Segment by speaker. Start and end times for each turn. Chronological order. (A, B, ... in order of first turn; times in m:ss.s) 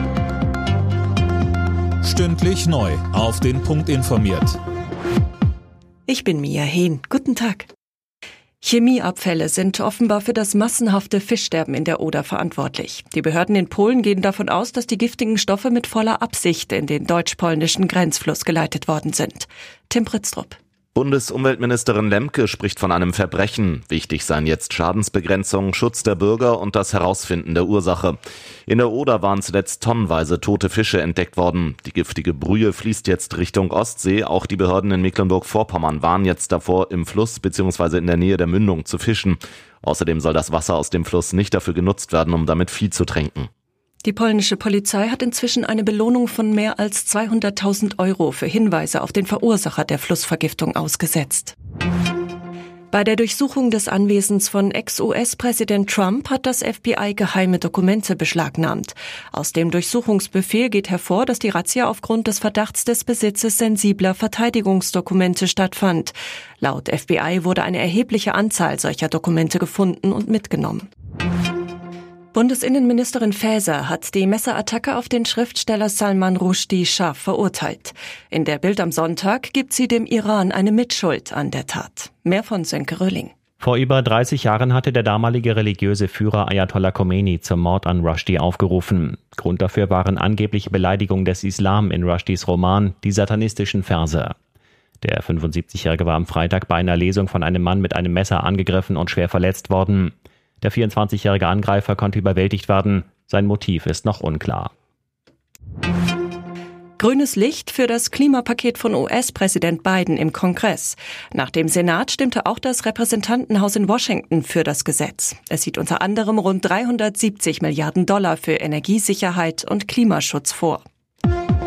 0:02.0-0:04.6 A
0:06.1-0:07.7 B
0:08.6-0:20.6 B
0:21.0-0:43.5 C
0:44.0-0:51.5 B
0:52.9-1:10.9 B
1:12.3-1:23.3 B
1:23.6-1:34.4 D
1:35.0-1:44.7 D
1:47.0-2:00.8 B